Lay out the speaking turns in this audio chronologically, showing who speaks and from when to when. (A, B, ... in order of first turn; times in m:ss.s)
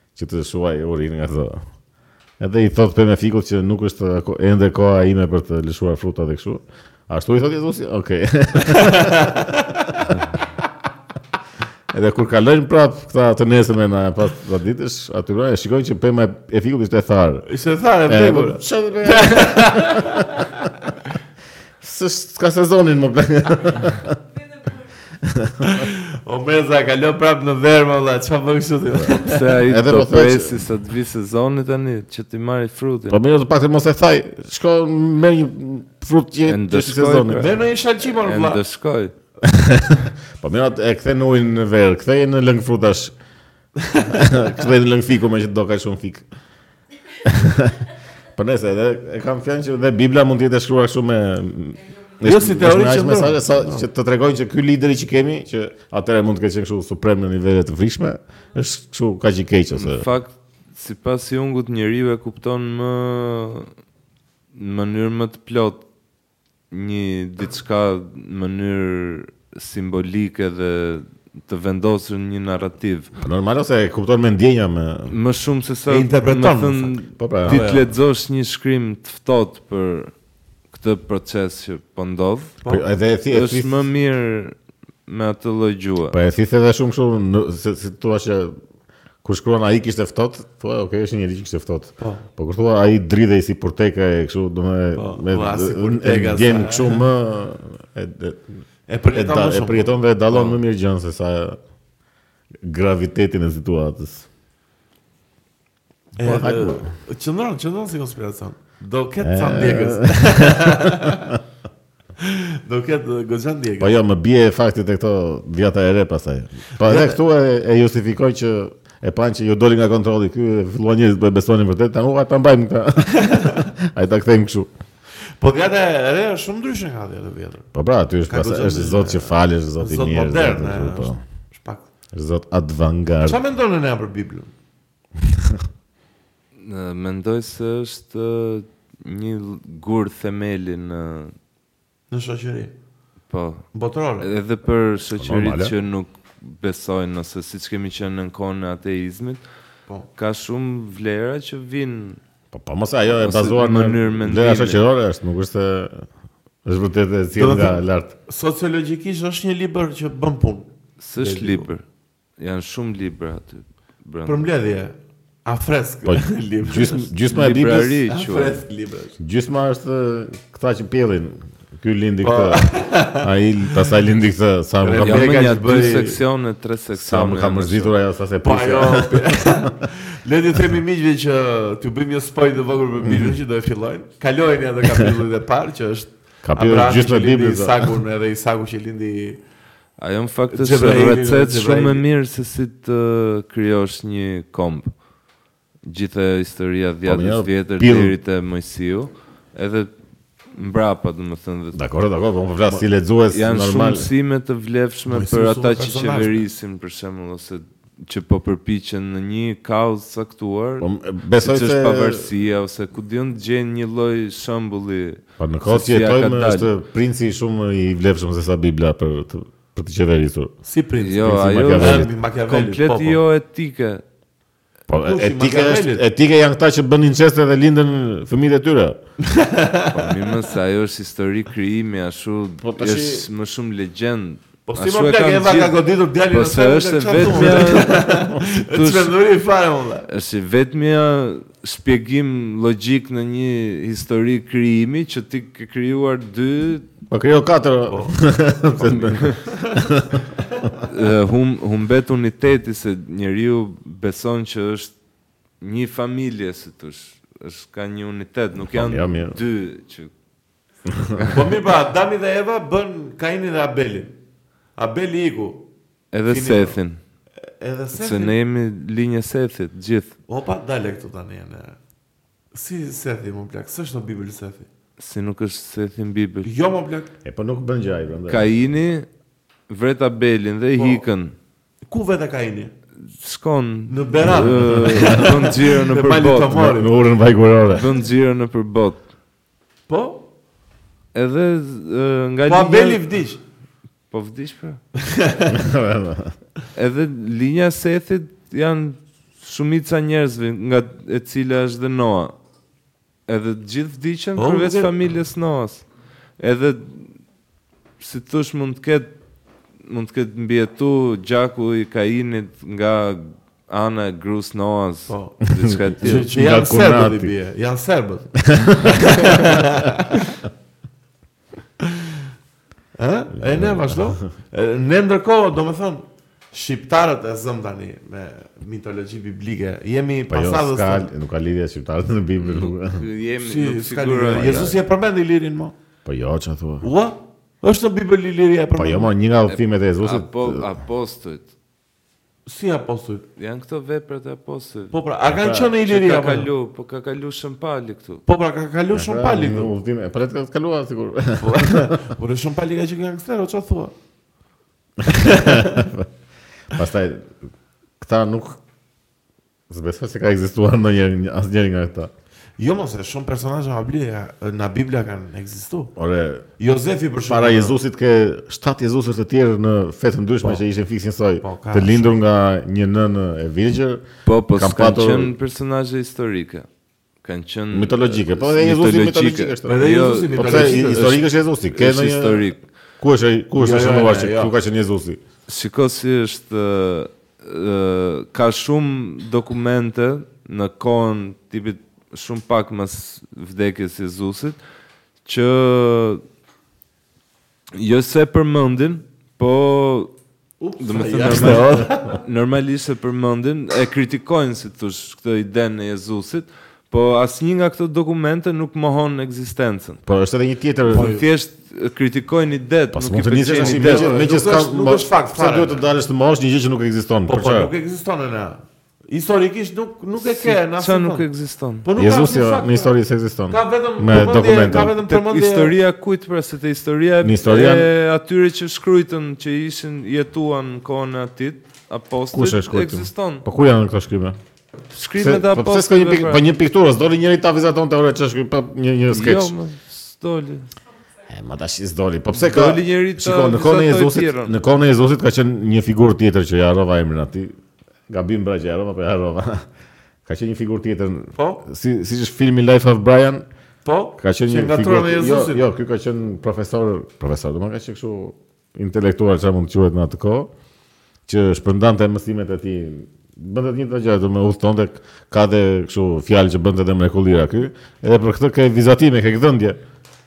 0:00.2-0:01.6 A
0:02.4-0:09.4 A
0:08.6-0:10.1 B
0:11.9-0:17.5 A
0:17.5-0:20.5 B
0:18.1-0:20.7 A
0:21.8-0:24.2 A
0:25.2-0:25.9 A
0:25.6-0:29.5 B
0:29.2-0:33.2 C
0:29.6-0:30.7 A
0:33.1-0:37.5 A
0:36.5-0:39.1 C
0:37.4-0:38.6 B
0:39.4-0:43.1 A
0:44.0-0:46.2 A
0:47.2-1:00.1 A
0:52.2-0:53.9 B
0:59.7-1:03.7 C
1:04.6-1:05.8 C
1:06.7-1:13.1 C
1:13.2-1:15.2 A
1:15.1-1:20.1 C
1:15.9-1:17.8 B
1:17.2-1:17.7 A
1:20.7-1:22.6 C
1:22.7-1:23.8 A
1:23.3-1:24.6 C
1:25.1-1:26.2 C
1:26.1-1:28.6 A
1:29.2-1:38.5 A
1:32.0-1:32.2 B
1:35.0-1:37.0 B
1:38.9-1:40.6 B
1:39.1-1:41.6 A
1:42.6-1:44.3 A
1:46.2-1:51.4 B
1:46.2-1:46.9 A
1:49.2-1:51.4 A
1:52.2-1:54.0 B
1:53.8-2:04.7 A
1:56.8-1:57.2 B
2:03.2-2:03.6 B
2:05.4-2:07.7 B
2:07.7-2:11.2 A
2:08.3-2:11.8 B
2:12.1-2:13.4 A
2:13.2-2:14.5 B
2:15.2-2:15.6 A
2:16.6-2:21.3 C
2:22.1-2:22.7 B
2:23.3-2:23.7 C
2:23.7-2:24.3 B
2:24.2-2:29.4 C
2:25.2-2:25.7 A
2:30.2-2:32.2 C
2:32.5-2:36.0 A
2:33.1-2:34.8 C
2:36.6-2:38.1 A
2:37.4-2:41.7 B
2:41.0-2:41.8 C
2:42.4-2:44.5 C
2:44.2-2:47.1 B
2:46.1-2:48.0 A
2:47.3-2:48.6 C
2:48.1-2:49.2 B
2:49.2-2:55.4 A
2:52.2-2:53.8 B
2:54.8-2:56.2 B
2:55.0-2:57.9 C
2:57.0-2:59.7 A
2:58.4-3:09.4 B
3:03.0-3:03.3 A
3:06.4-3:07.9 A
3:10.0-3:14.9 C
3:10.5-3:12.0 B
3:15.8-3:19.9 C
3:17.0-3:18.2 A
3:20.5-3:21.8 C
3:21.7-3:24.1 A
3:23.3-3:30.9 C
3:25.1-3:26.4 B
3:30.8-3:32.3 A
3:31.4-3:36.7 C
3:35.4-3:40.5 A
3:40.6-3:43.2 B
3:41.0-3:44.0 C
3:41.2-3:42.1 A
3:44.9-3:49.0 A
3:45.0-3:46.0 B
3:49.2-3:50.3 B
3:49.9-3:59.2 C
3:52.6-3:53.3 A
3:54.7-4:00.1 B
4:00.1-4:06.9 C
4:07.1-4:10.7 A
4:07.9-4:08.2 B
4:09.0-4:09.4 C
4:09.5-4:09.8 B
4:10.8-4:14.9 C
4:15.6-4:20.1 C
4:18.7-4:19.4 A
4:20.9-4:21.3 A
4:21.2-4:24.2 B
4:24.8-4:25.6 B
4:26.1-4:27.0 C
4:26.3-4:26.8 B
4:27.6-4:28.3 B
4:28.0-4:30.1 C
4:30.3-4:31.8 B
4:32.5-4:34.7 B
4:35.0-4:36.5 C
4:36.4-4:37.1 B
4:37.2-4:38.5 A
4:38.3-4:39.1 C
4:39.7-4:41.3 C
4:40.8-4:41.0 B
4:41.9-4:42.7 B
4:43.1-4:46.6 C
4:43.9-4:46.9 B
4:46.5-4:47.9 A
4:47.7-4:49.0 C
4:49.9-4:50.2 B
4:51.1-4:53.0 C
4:52.5-4:53.4 B
4:54.1-4:54.8 C
4:55.0-4:55.6 B
4:55.5-4:56.4 A
4:56.8-5:02.3 C
5:03.3-5:05.8 C
5:04.4-5:04.9 B
5:06.4-5:07.1 C
5:08.0-5:09.1 C
5:09.8-5:16.3 C
5:15.1-5:15.4 B
5:15.5-5:17.3 A
5:16.0-5:20.3 B
5:18.4-5:19.6 A
5:23.0-5:31.1 B
5:23.4-5:24.3 A
5:30.3-5:33.0 A
5:32.4-5:34.7 C
5:33.4-5:35.7 B
5:34.3-5:34.8 A
5:36.1-5:36.9 A
5:36.8-5:39.1 B
5:38.8-5:40.7 A
5:39.5-5:41.5 C
5:42.5-5:43.2 B
5:43.4-5:45.0 C
5:44.9-5:46.5 B
5:45.3-5:45.7 A
5:45.8-5:48.2 C
5:48.3-5:49.7 B
5:48.9-5:52.0 A
5:51.4-5:53.9 B
5:55.0-5:56.1 A
5:55.2-5:55.8 B
5:56.7-5:57.3 A
5:58.0-5:58.6 A
5:59.7-6:02.1 A
6:02.6-6:05.9 B
6:06.0-6:06.4 A
6:06.6-6:07.8 B
6:07.3-6:15.3 A
6:11.4-6:12.1 B
6:14.3-6:16.7 C
6:17.2-6:21.1 C
6:17.7-6:19.8 A
6:19.7-6:21.2 B
6:20.3-6:22.5 A
6:21.7-6:22.6 C
6:23.0-6:25.2 A
6:23.6-6:24.5 B
6:25.5-6:34.6 C
6:35.2-6:36.2 C
6:37.8-6:40.1 C
6:40.6-6:42.2 B
6:40.8-6:50.0 C
6:41.3-6:41.9 A
6:50.1-6:51.1 A
6:50.9-6:54.1 C
6:50.9-6:51.2 B
6:52.9-6:57.7 A
6:53.5-6:55.8 B
6:57.3-7:01.3 B
7:00.2-7:01.9 C
7:01.8-7:02.9 B
7:02.0-7:05.0 A
7:03.5-7:05.7 B
7:05.0-7:13.4 C
7:07.2-7:07.9 A
7:12.3-7:14.4 A
7:14.9-7:16.4 C
7:15.2-7:19.5 A
7:19.1-7:20.7 C
7:21.3-7:27.5 A
7:22.3-7:24.6 C
7:28.1-7:29.6 A
7:30.3-7:33.5 A
7:31.4-7:31.6 B
7:33.8-7:35.6 B
7:34.2-7:40.5 A
7:41.3-7:49.8 A